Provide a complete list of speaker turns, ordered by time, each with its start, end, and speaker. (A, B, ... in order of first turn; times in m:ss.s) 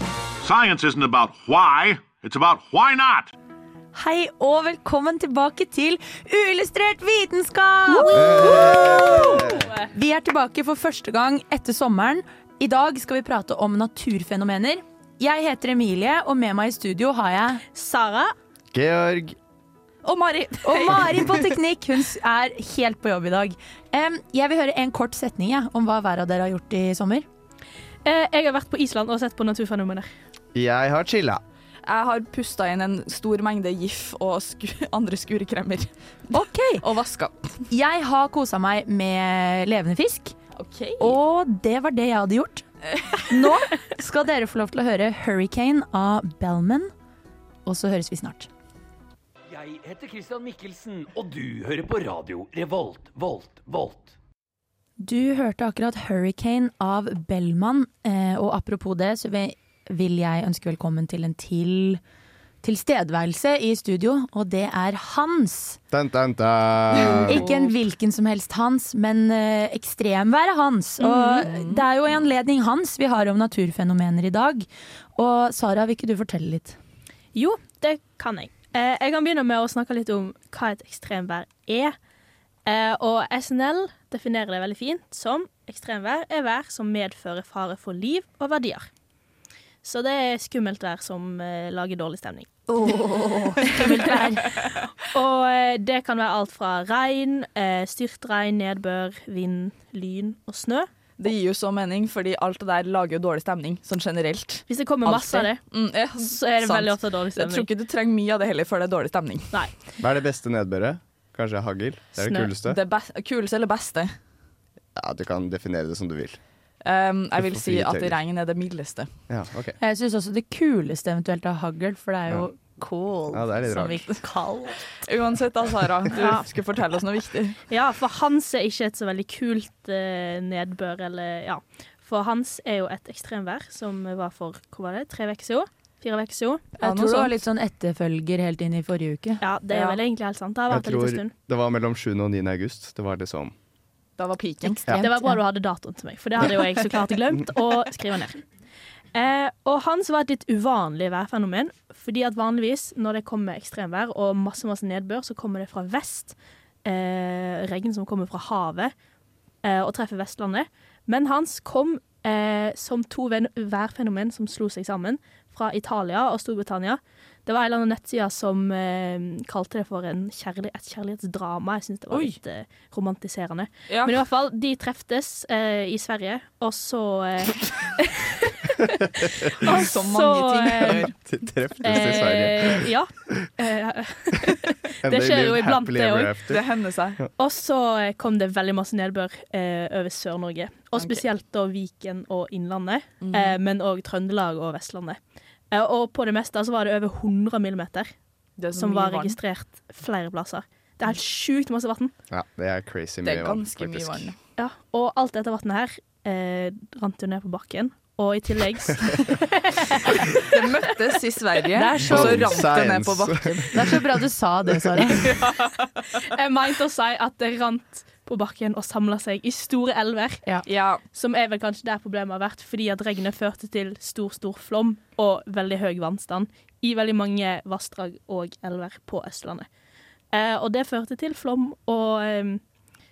0:00.4-0:03.3 A
0:03.9-0:17.6 B
0:07.9-0:09.6 C
0:08.1-0:09.7 D
0:17.7-0:18.3 C
0:18.7-0:19.4 D
0:20.0-0:21.4 E
0:20.6-0:27.3 B
0:28.0-0:30.1 C
0:30.5-0:31.4 D
0:31.9-0:37.6 E
0:36.3-0:36.8 B
0:37.7-0:40.4 B
0:40.6-0:41.2 E
0:41.0-0:42.6 B
0:42.9-0:43.3 E
0:43.3-0:46.9 B
0:47.7-0:48.5 B
0:49.5-0:54.2 F
0:55.0-1:02.0 B
1:02.6-1:05.8 B
1:05.9-1:07.4 D
1:07.0-1:07.7 E
1:07.3-1:16.8 B
1:11.0-1:11.5 C
1:11.5-1:11.8 E
1:17.3-1:22.0 C
1:22.7-1:28.9 C
1:29.8-1:32.6 C
1:32.8-1:34.5 B
1:33.7-1:40.9 C
1:41.2-1:49.6 E
1:44.7-1:45.6 C
1:46.2-1:47.7 C
1:50.0-1:52.8 D
1:52.2-1:52.5 C
1:52.7-1:54.1 E
1:55.0-1:56.4 D
1:56.8-1:59.1 E
1:57.4-1:58.2 D
1:59.3-1:59.8 D
1:59.8-2:04.9 B
2:03.3-2:04.1 D
2:05.0-2:07.6 E
2:06.1-2:06.5 C
2:07.7-2:16.7 C
2:16.8-2:19.4 B
2:16.8-2:17.3 E
2:19.4-2:21.3 C
2:19.7-2:20.0 E
2:20.7-2:23.5 D
2:24.2-2:24.9 E
2:24.7-2:28.4 C
2:24.9-2:25.4 B
2:29.1-2:38.9 C
2:39.6-3:01.1 C
2:53.9-2:54.2 E
2:59.2-2:59.5 D
2:59.6-3:01.1 E
3:01.1-3:02.9 D
3:01.8-3:06.3 C
3:05.0-3:06.6 D
3:06.5-3:07.2 E
3:07.4-3:15.2 C
3:11.0-3:11.2 E
3:13.2-3:13.6 E
3:15.7-3:18.1 C
3:18.6-3:19.4 E
3:18.8-3:22.1 C
3:22.3-3:24.3 D
3:23.2-3:24.4 E
3:24.6-3:30.6 C
3:30.4-3:33.7 E
3:31.8-3:32.6 B
3:32.0-3:33.7 D
3:33.7-3:35.3 B
3:35.2-3:35.7 E
3:36.2-3:40.4 C
3:40.7-3:41.0 E
3:41.1-3:49.7 C
3:50.3-3:52.6 C